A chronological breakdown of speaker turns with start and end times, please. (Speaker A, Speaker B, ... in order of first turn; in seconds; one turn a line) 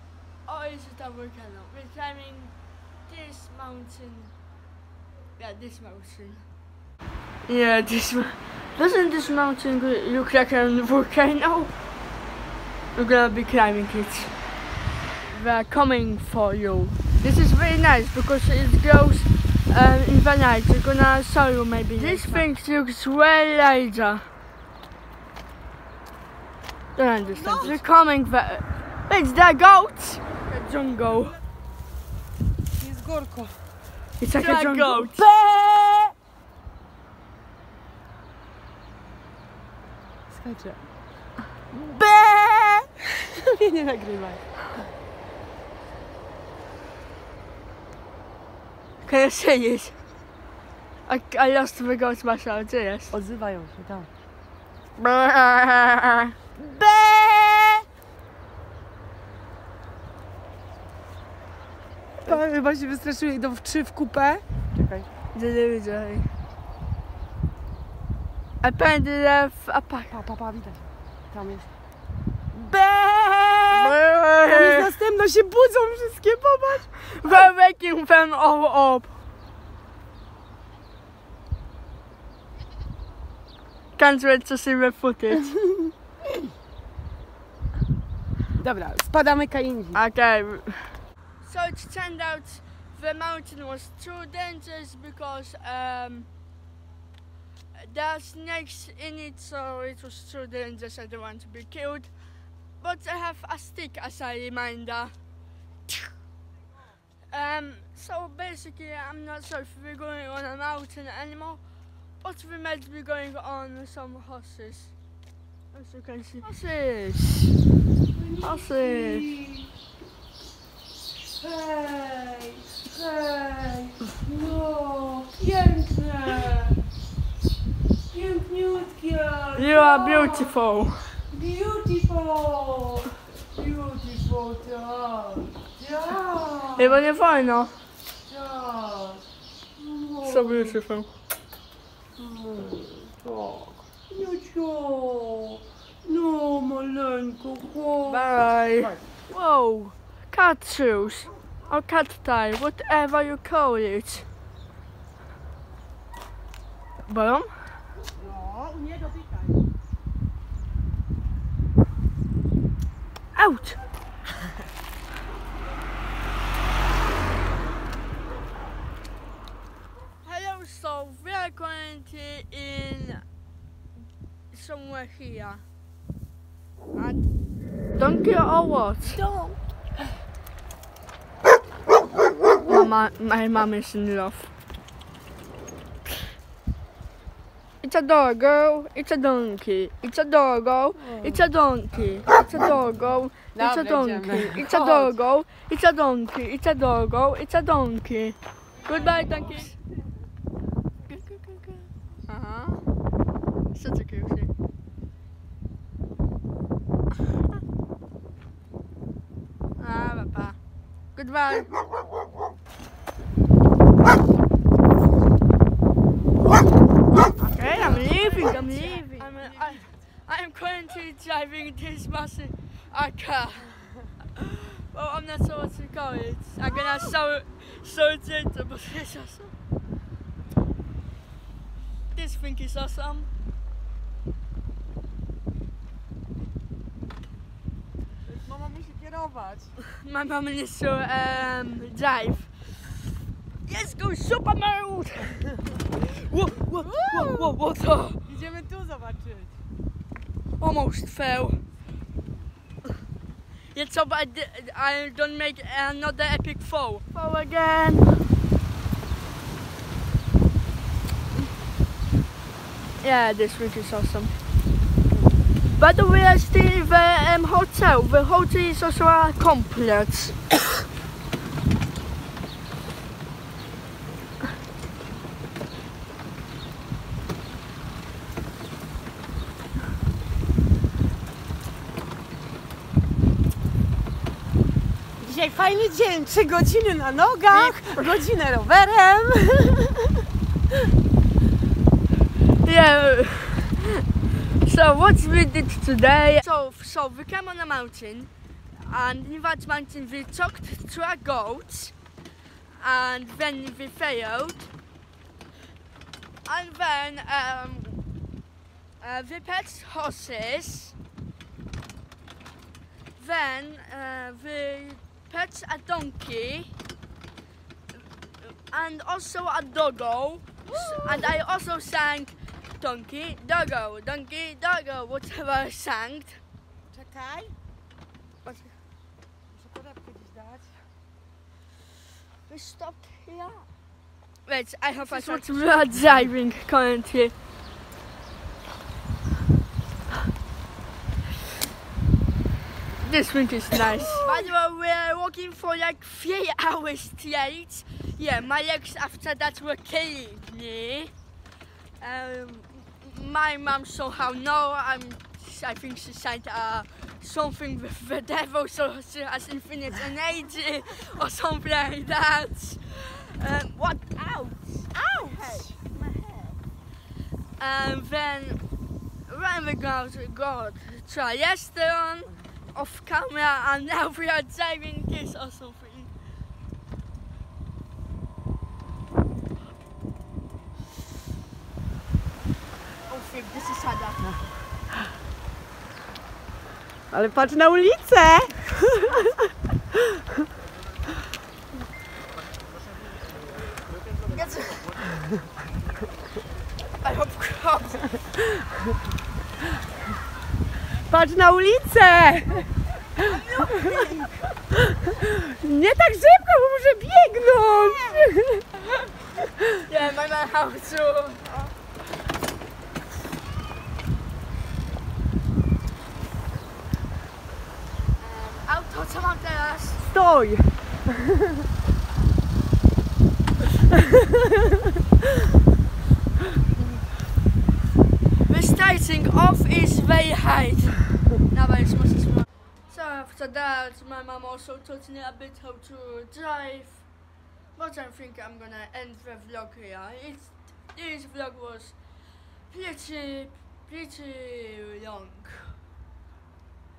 Speaker A: 0.5-2.5
Speaker A: 3.1-4.3
Speaker A: 5.4-6.5
Speaker A: 7.5-11.7
Speaker A: 12.9-14.3
Speaker A: 15.3-24.3
Speaker B: 21.9-22.5
Speaker A: 26.9-31.4
Speaker B: 27.2-27.8
Speaker B: 32.8-33.6
Speaker A: 34.2-35.2
Speaker B: 34.4-36.1
Speaker B: 40.3-40.8
Speaker A: 41.7-42.9
Speaker B: 43.3-44.4
Speaker A: 49.0-50.0
Speaker A: 51.1-53.1
Speaker B: 53.1-54.1
Speaker A: 55.0-56.3
Speaker B: 56.6-57.8
Speaker B: 62.2-65.1
Speaker A: 65.3-66.3
Speaker A: 68.6-70.1
Speaker B: 70.1-71.7
Speaker B: 72.5-77.5
Speaker A: 73.7-74.9
Speaker A: 77.0-79.2
Speaker A: 84.0-85.5
Speaker B: 88.6-90.0
Speaker A: 89.9-96.3
Speaker A: 97.8-102.1
Speaker A: 102.8-105.1
Speaker A: 107.3-111.6
Speaker A: 112.2-114.9
Speaker A: 115.7-117.6
Speaker B: 118.2-119.7
Speaker A: 118.4-119.4
Speaker B: 121.2-126.8
Speaker B: 128.1-130.5
Speaker A: 129.6-131.1
Speaker B: 131.3-137.0
Speaker A: 136.8-137.8
Speaker B: 138.3-139.2
Speaker B: 139.8-140.8
Speaker A: 140.2-141.1
Speaker B: 142.2-149.0
Speaker A: 148.1-154.3
Speaker A: 157.1-157.6
Speaker B: 158.2-159.6
Speaker A: 163.3-163.8
Speaker A: 170.2-173.2
Speaker A: 174.5-175.6
Speaker A: 176.9-177.2
Speaker A: 178.0-179.2
Speaker B: 179.1-179.6
Speaker A: 182.7-184.5
Speaker A: 187.8-199.8
Speaker B: 191.0-191.5
Speaker B: 193.5-195.2
Speaker B: 198.9-199.6
Speaker A: 201.1-202.8
Speaker A: 203.7-204.5
Speaker A: 209.8-210.6
Speaker A: 211.2-211.7
Speaker A: 217.4-223.8
Speaker B: 217.7-219.9
Speaker A: 224.3-229.5
Speaker A: 232.1-233.3
Speaker B: 238.3-239.7
Speaker A: 239.9-242.5
Speaker A: 243.7-248.2
Speaker B: 247.0-247.6
Speaker B: 248.2-249.6
Speaker A: 250.6-251.6
Speaker A: 253.7-258.1
Speaker A: 263.0-264.3
Speaker A: 265.8-270.4
Speaker B: 285.2-290.2
Speaker A: 287.5-288.0
Speaker A: 292.6-301.9
Speaker A: 302.8-304.7
Speaker A: 306.4-308.0
Speaker A: 309.0-310.9
Speaker A: 313.1-316.7
Speaker A: 318.4-326.4
Speaker B: 320.7-321.4
Speaker B: 326.9-327.5
Speaker A: 328.4-328.7
Speaker B: 329.5-330.8
Speaker A: 332.5-333.6
Speaker A: 334.5-337.3
Speaker B: 335.0-336.0
Speaker A: 343.0-351.1
Speaker B: 344.1-344.4
Speaker A: 352.0-366.2
Speaker B: 364.9-365.8
Speaker A: 367.6-368.6
Speaker A: 369.3-376.1
Speaker A: 383.1-384.4
Speaker B: 387.1-390.1
Speaker A: 394.3-395.0
Speaker A: 397.0-398.1
Speaker B: 401.1-403.9
Speaker A: 403.2-404.6
Speaker B: 404.9-408.6
Speaker A: 407.8-408.2
Speaker A: 409.6-411.7
Speaker A: 418.2-420.0
Speaker B: 420.0-421.6
Speaker B: 424.0-424.6
Speaker A: 428.4-437.1
Speaker A: 437.8-442.0
Speaker A: 442.7-445.8